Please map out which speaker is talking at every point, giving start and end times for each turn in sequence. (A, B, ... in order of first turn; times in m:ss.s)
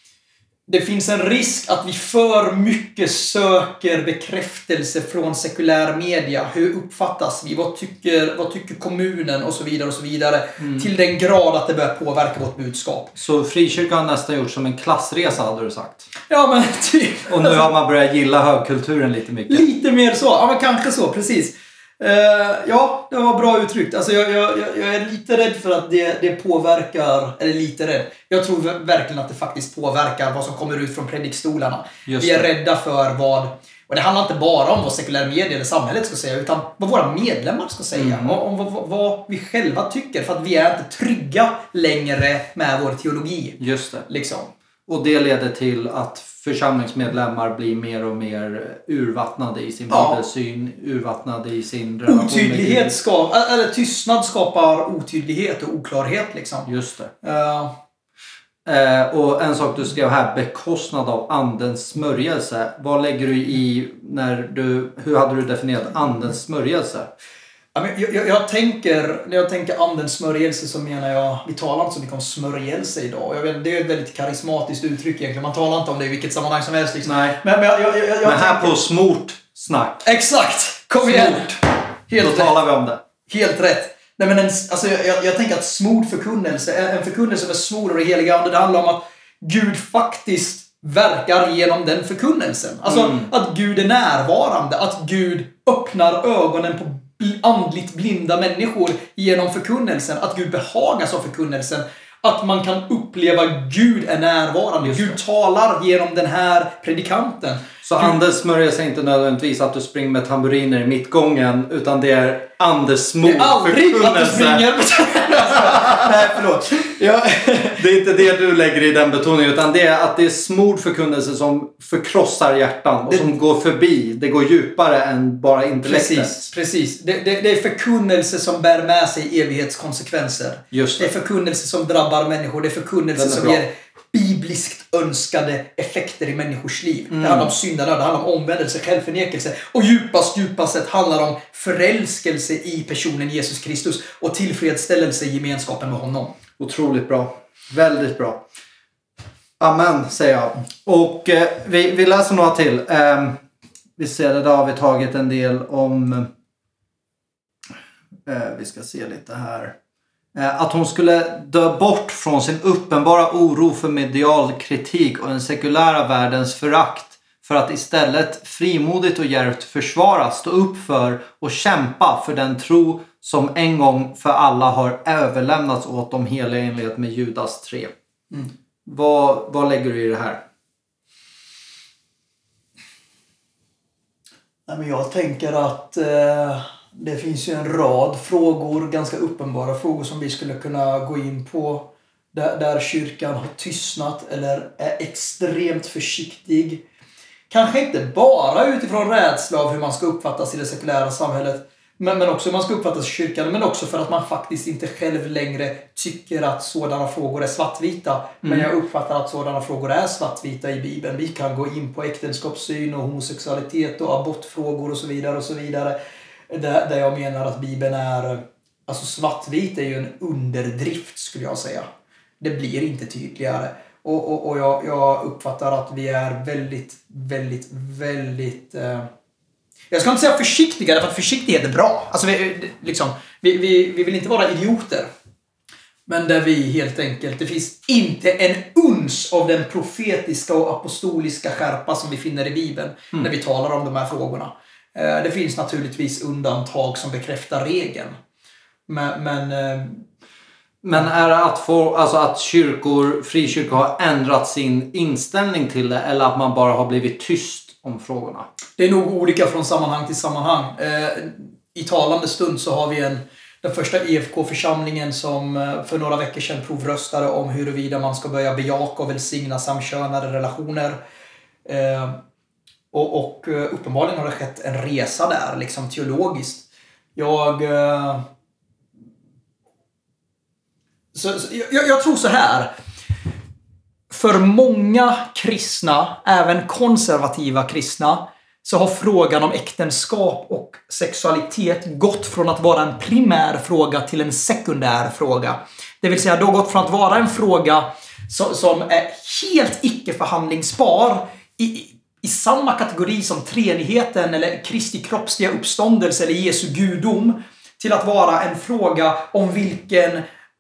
0:00.7-0:13.2 A
0:10.6-0:10.9 B
0:13.2-0:16.1 B
0:16.3-0:17.7 A
0:17.3-0:19.6 B
0:19.5-0:44.5 A
0:32.1-0:32.5 B
0:37.9-0:38.4 B
0:43.6-0:44.1 B
0:44.9-0:52.9 B
0:49.9-0:50.2 A
0:52.1-0:56.7 A
0:56.7-0:57.1 B
0:57.2-0:57.8 A
0:58.6-1:07.1 B
1:07.8-1:18.8 A
1:17.0-1:17.4 B
1:18.2-1:20.1 B
1:20.0-1:22.5 A
1:21.0-1:21.6 B
1:22.2-1:23.0 B
1:23.3-1:48.2 A
1:32.9-1:33.3 B
1:44.8-1:45.2 B
1:47.8-1:54.7 B
1:53.2-1:57.8 A
1:55.5-1:56.3 B
1:57.8-2:06.5 B
2:05.8-2:26.3 A
2:10.7-2:11.1 B
2:13.2-2:13.6 B
2:17.1-2:17.5 B
2:26.6-2:28.4 B
2:29.6-2:33.4 B
2:34.0-2:36.3 B
2:38.3-2:39.8 B
2:40.3-2:57.9 B
2:58.9-3:00.4 B
3:04.7-3:16.8 A
3:17.5-3:36.0 A
3:36.5-3:41.9 A
3:42.4-3:49.1 A
3:49.9-3:55.1 A
3:56.1-4:08.2 A
4:08.9-4:10.0 A
4:10.8-4:18.5 B
4:18.8-4:31.0 A
4:31.7-4:32.2 A
4:32.9-4:38.2 A
4:41.1-4:42.7 A
4:44.1-5:10.2 A